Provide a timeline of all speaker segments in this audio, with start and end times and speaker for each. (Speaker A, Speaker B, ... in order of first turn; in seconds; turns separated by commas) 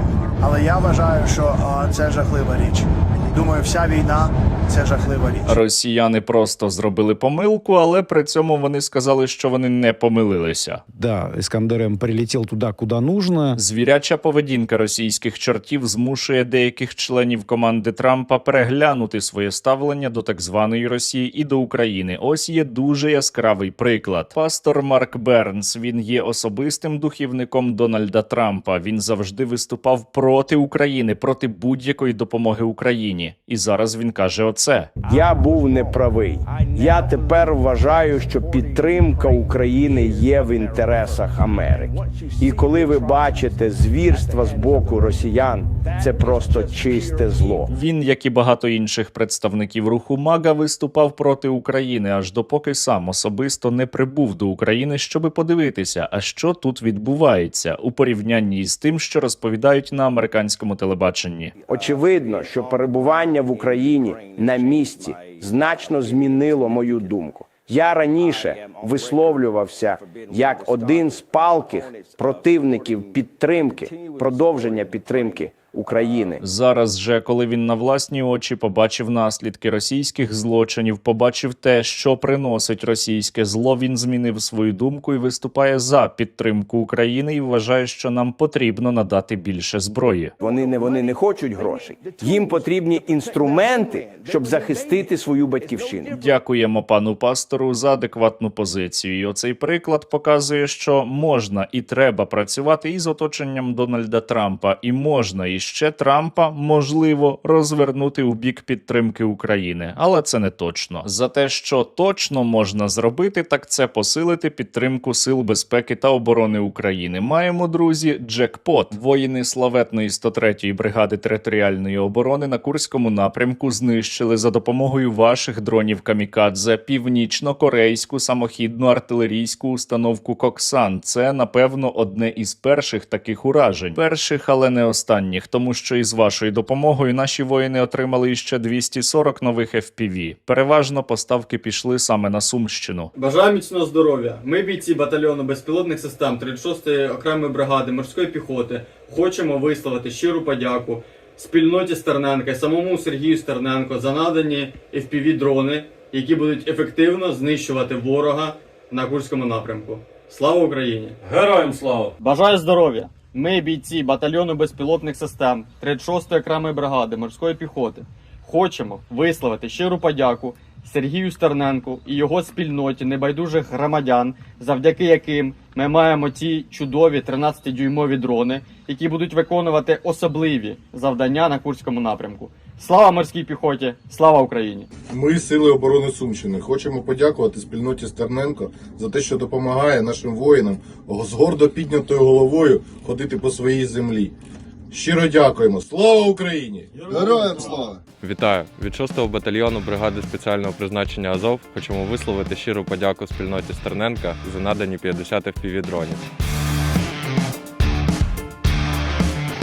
Speaker A: 0.4-5.6, Speaker B: 5.5-10.8, Speaker C: 10.9-13.6, Speaker B: 13.6-34.9, Speaker D: 35.0-47.7, Speaker B: 47.7-61.5, Speaker D: 61.7-76.4, Speaker B: 76.4-90.3, Speaker D: 90.4-96.2, Speaker B: 96.1-143.1, Speaker E: 143.2-161.2, Speaker E: 162.2-184.9, Speaker F: 185.1-194.3, Speaker F: 194.9-198.0, Speaker E: 196.9-197.8, Speaker G: 198.2-206.2